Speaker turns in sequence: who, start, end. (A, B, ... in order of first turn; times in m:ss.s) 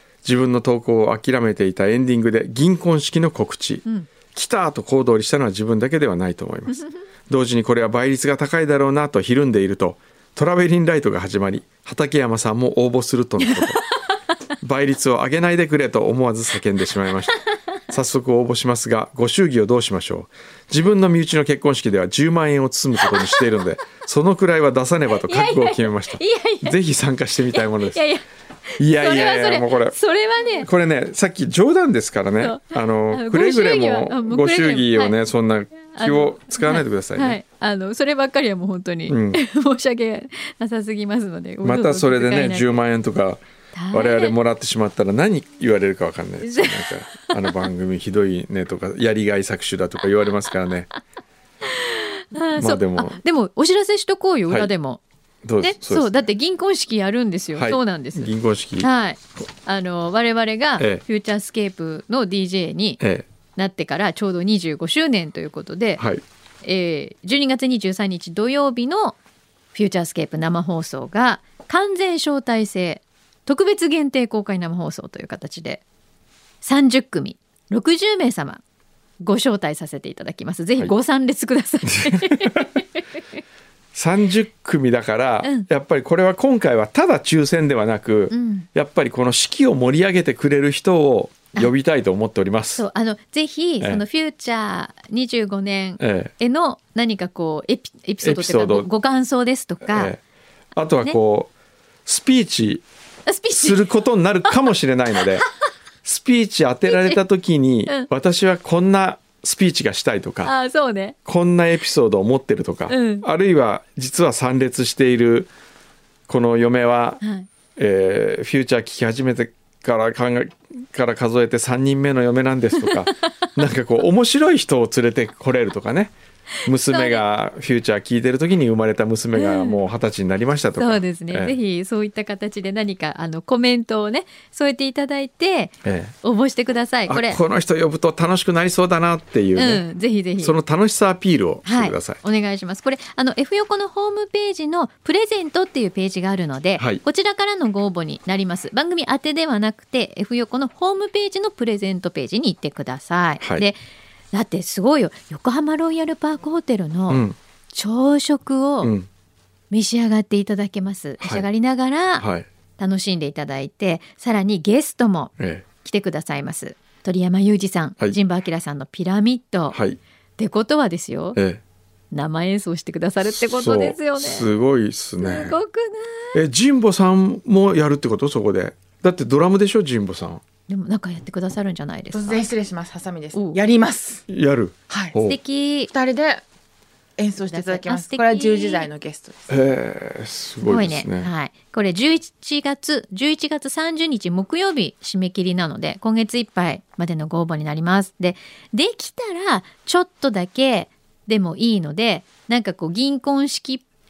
0:00.2-0:13.8 A
0:14.6-0:28.0 A
0:25.3-0:26.8 B
0:27.5-0:30.7 B
0:28.8-0:30.0 A
0:30.6-0:37.4 A
0:32.4-0:35.2 B
0:35.9-0:42.8 B
0:39.1-0:39.4 A
0:41.6-0:43.4 A
0:43.7-0:44.3 B
0:43.9-0:50.9 A
0:46.4-0:47.0 B
0:51.6-0:55.0 B
0:52.6-0:53.2 A
0:55.4-0:56.2 A
0:55.6-1:03.0 B
0:57.6-0:58.9 A
1:03.0-1:03.2 A
1:03.6-1:06.0 B
1:06.0-1:06.2 A
1:06.6-1:09.2 B
1:09.7-1:15.8 B
1:16.6-1:18.6 B
1:19.2-1:22.8 B
1:21.8-1:22.7 A
1:23.9-1:32.8 A
1:25.4-1:25.7 B
1:28.3-1:28.7 B
1:32.8-1:40.1 B
1:36.0-1:36.3 A
1:38.2-1:38.9 A
1:39.8-1:40.2 A
1:40.7-1:41.5 A
1:42.0-1:42.8 A
1:43.3-1:43.8 B
1:43.5-1:45.4 A
1:46.0-1:50.5 A
1:46.8-1:47.2 B
1:50.4-1:51.2 B
1:51.2-1:55.5 A
1:52.9-1:53.2 B
1:56.3-1:57.2 A
1:57.2-1:57.5 B
1:57.8-2:06.1 A
2:06.6-2:11.6 A
2:06.9-2:07.2 B
2:09.3-2:09.8 B
2:10.8-2:17.4 B
2:15.8-2:16.1 A
2:17.1-2:19.8 A
2:19.6-2:20.6 B
2:20.4-2:22.2 A
2:21.6-2:33.8 B
2:33.4-2:33.7 A
2:34.3-2:38.9 B
2:37.1-2:37.4 A
2:38.8-2:39.1 A
2:39.7-2:42.2 B
2:42.2-2:42.5 A
2:42.8-2:45.3 B
2:45.4-2:45.6 A
2:45.8-2:49.8 B
2:49.7-2:50.0 A
2:50.4-2:51.4 B
2:51.4-2:51.6 A
2:52.1-2:54.5 B
2:53.2-2:55.6 A
2:55.2-2:56.4 B
2:56.3-3:00.4 A
3:00.7-3:02.4 B
3:02.1-3:04.2 C
3:04.3-3:05.4 A
3:04.9-3:05.1 C
3:05.2-3:05.9 B
3:05.9-3:06.4 C
3:07.2-3:09.5 C
3:07.5-3:08.9 B
3:09.5-3:11.3 A
3:10.6-3:23.8 B